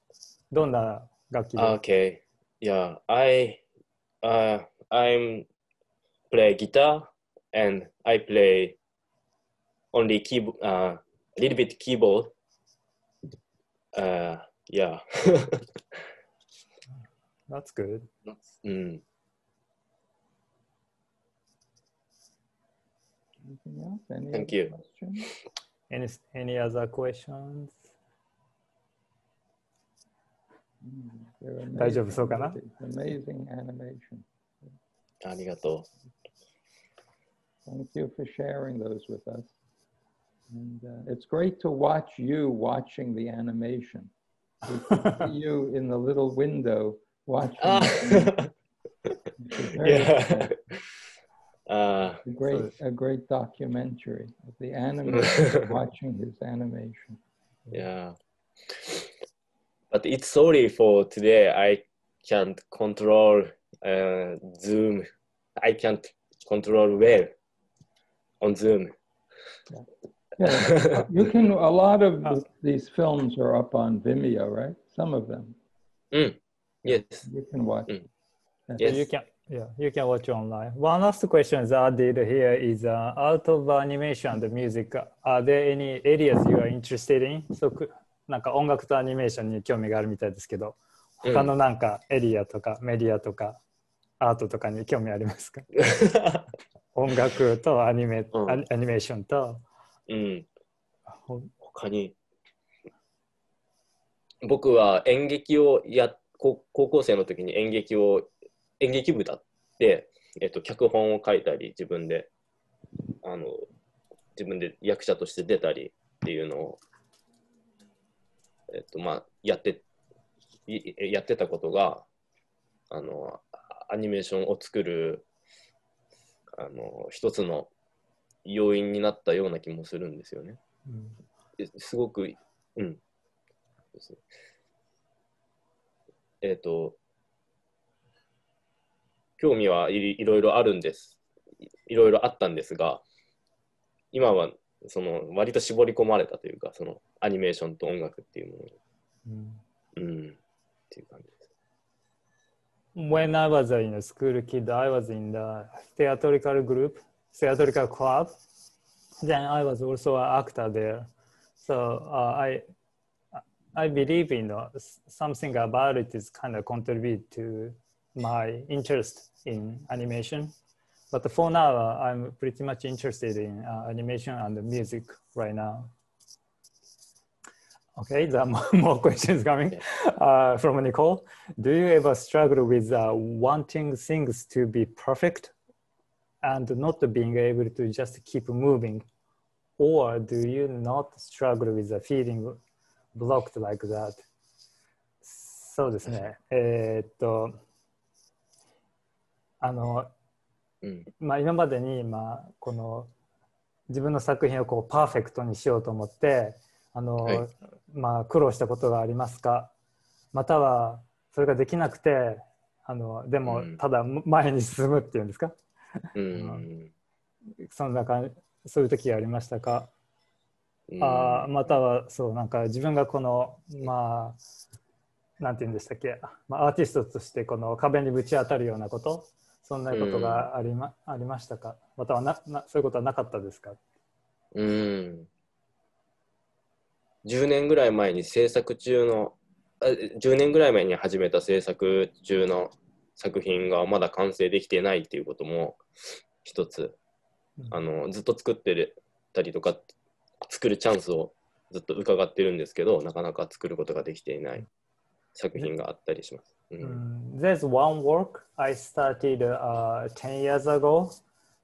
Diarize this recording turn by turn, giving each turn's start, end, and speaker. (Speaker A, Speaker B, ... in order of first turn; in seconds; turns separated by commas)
Speaker A: 0.5-1.7, Speaker B: 1.6-3.6, Speaker B: 4.2-5.4, Speaker B: 6.3-8.8, Speaker B: 9.9-12.3, Speaker B: 13.9-16.0, Speaker A: 17.5-18.1, Speaker B: 18.2-19.0, Speaker C: 23.4-25.3, Speaker B: 24.3-24.7, Speaker A: 25.9-27.8, Speaker C: 30.8-34.7, Speaker A: 31.8-32.5, Speaker B: 35.2-35.9, Speaker C: 37.6-39.5, Speaker C: 40.5-44.1, Speaker C: 44.6-48.4, Speaker A: 44.9-45.2, Speaker B: 47.6-48.5, Speaker C: 49.4-50.5, Speaker B: 49.8-50.8, Speaker B: 51.7-52.2, Speaker C: 52.2-57.2, Speaker B: 55.0-55.7, Speaker B: 57.7-58.1, Speaker B: 58.7-59.0, Speaker B: 59.9-65.1, Speaker B: 65.6-67.3, Speaker B: 68.4-68.9, Speaker C: 70.4-75.6, Speaker B: 70.4-71.0, Speaker B: 76.1-77.2, Speaker C: 77.2-78.0, Speaker B: 78.8-79.0, Speaker A: 78.8-93.6, Speaker B: 91.2-91.5, Speaker A: 94.2-95.7, Speaker B: 95.8-96.4, Speaker A: 96.9-99.6, Speaker B: 98.3-98.6, Speaker B: 100.1-100.5, Speaker A: 101.2-101.5, Speaker B: 101.6-102.1, Speaker B: 104.4-108.3, Speaker B: 108.8-112.3, Speaker B: 113.2-113.7, Speaker B: 114.3-116.8, Speaker B: 118.7-119.8, Speaker B: 120.7-122.0, Speaker B: 122.9-125.2, Speaker B: 126.5-127.7, Speaker B: 128.4-130.6, Speaker A: 130.9-131.2, Speaker B: 131.6-133.0, Speaker B: 136.4-137.0, Speaker B: 139.4-141.2, Speaker B: 141.9-143.0, Speaker B: 144.1-148.7, Speaker A: 149.2-149.6, Speaker B: 149.9-150.4, Speaker B: 150.9-151.4, Speaker A: 152.9-158.4, Speaker A: 159.2-161.1, Speaker A: 161.6-162.6, Speaker A: 163.7-170.5, Speaker A: 171.1-175.9, Speaker A: 178.0-185.5, Speaker A: 186.4-189.0, Speaker A: 189.8-192.6, Speaker A: 193.1-194.2, Speaker A: 195.2-197.6, Speaker A: 199.6-200.1, Speaker A: 201.2-203.1, Speaker A: 203.9-209.7, Speaker A: 210.3-215.5, Speaker B: 213.4-213.8, Speaker B: 216.1-216.9, Speaker A: 216.3-216.6, Speaker A: 217.6-219.9, Speaker B: 220.9-221.5, Speaker A: 221.0-224.4, Speaker A: 225.4-233.8, Speaker B: 229.9-230.5, Speaker B: 234.5-235.3, Speaker B: 237.2-245.8, Speaker B: 246.4-247.0, Speaker B: 247.7-249.9, Speaker B: 250.5-254.7, Speaker B: 255.3-257.0, Speaker A: 256.8-261.1